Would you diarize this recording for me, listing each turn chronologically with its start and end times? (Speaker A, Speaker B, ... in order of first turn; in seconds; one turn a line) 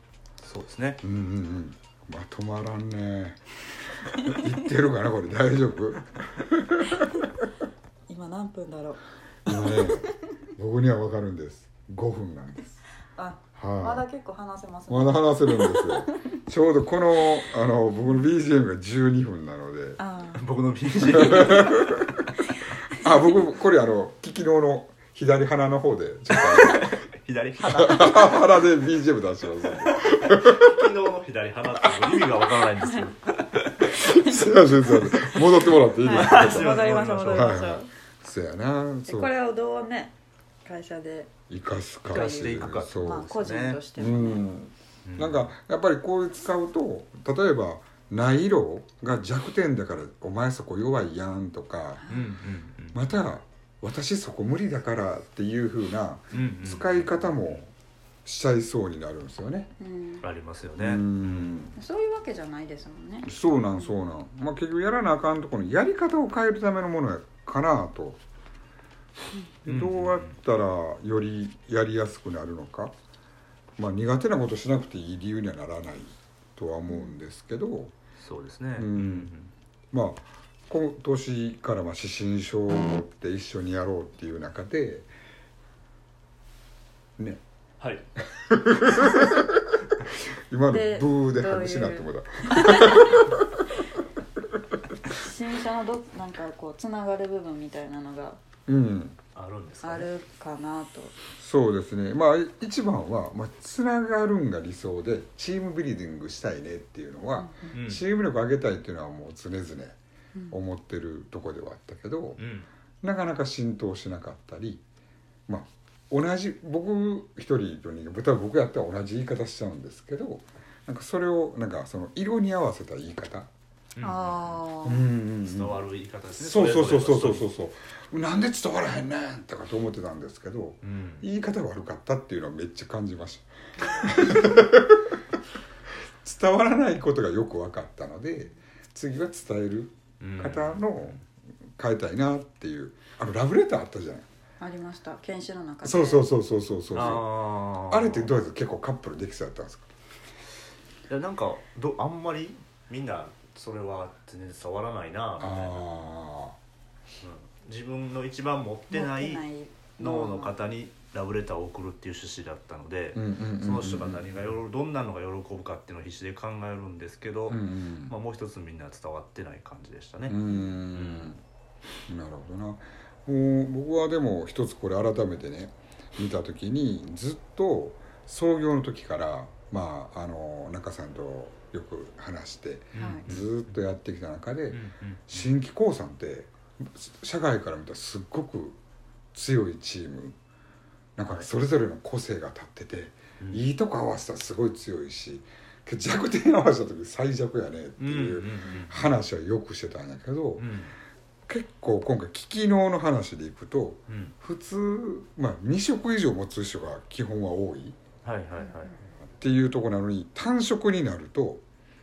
Speaker A: 0.4-1.0
Speaker B: 1.0-7.0
Speaker C: 8.1-9.0
Speaker B: 9.5-12.8
Speaker C: 9.6-9.9
Speaker C: 13.2-16.2
Speaker B: 13.6-14.1
Speaker B: 14.9-20.0
Speaker C: 20.0-20.4
Speaker A: 20.4-22.1
Speaker B: 21.1-22.1
Speaker B: 23.0-27.0
Speaker A: 26.4-28.5
Speaker B: 27.7-30.7
Speaker A: 29.9-34.0
Speaker B: 34.0-39.3
Speaker C: 34.2-34.5
Speaker C: 35.0-35.4
Speaker C: 36.0-37.9
Speaker A: 36.0-37.6
Speaker C: 39.1-41.3
Speaker B: 41.5-43.3
Speaker A: 42.1-43.8
Speaker C: 42.1-44.5
Speaker B: 44.0-52.1
Speaker A: 45.0-45.5
Speaker C: 52.0-52.3
Speaker A: 52.1-53.0
Speaker B: 52.9-57.7
Speaker A: 56.3-57.5
Speaker B: 58.2-59.7
Speaker C: 59.8-60.2
Speaker A: 60.2-61.6
Speaker B: 60.8-61.8
Speaker C: 61.8-63.9
Speaker B: 63.3-68.2
Speaker B: 69.6-73.0
Speaker A: 69.7-70.3
Speaker B: 73.8-78.0
Speaker C: 76.9-77.1
Speaker A: 78.2-79.5
Speaker B: 78.8-79.3
Speaker B: 79.9-85.1
Speaker B: 87.2-87.4
Speaker B: 88.3-93.4
Speaker C: 90.7-93.2
Speaker C: 95.1-98.4
Speaker B: 98.7-99.2
Speaker A: 99.3-100.1
Speaker C: 99.8-101.1
Speaker B: 101.4-110.0
Speaker C: 107.4-107.7
Speaker A: 107.7-108.0
Speaker B: 110.5-112.4
Speaker A: 112.4-112.7
Speaker B: 113.0-114.8
Speaker B: 115.5-123.5
Speaker A: 124.0-124.6
Speaker C: 124.0-125.1
Speaker B: 124.8-125.8
Speaker A: 125.4-127.5
Speaker B: 126.4-135.0
Speaker A: 130.8-131.3
Speaker B: 136.2-141.2
Speaker A: 140.2-141.2
Speaker B: 141.8-144.3
Speaker C: 144.6-146.3
Speaker B: 145.8-147.3
Speaker A: 146.9-148.3
Speaker B: 147.9-149.9
Speaker A: 151.1-155.8
Speaker B: 155.4-156.6
Speaker A: 157.2-159.4
Speaker C: 158.9-160.5
Speaker A: 160.0-170.4
Speaker B: 163.2-164.6
Speaker B: 167.5-168.2
Speaker B: 170.3-171.4
Speaker C: 170.5-170.8
Speaker A: 170.9-171.4
Speaker B: 172.1-188.8
Speaker A: 182.9-183.8
Speaker C: 183.0-183.2
Speaker A: 184.7-185.5
Speaker B: 189.3-190.4
Speaker B: 191.2-200.7
Speaker A: 198.0-199.1
Speaker A: 200.6-200.9
Speaker B: 201.5-208.0
Speaker A: 204.1-204.3
Speaker A: 208.2-208.9
Speaker B: 209.4-211.6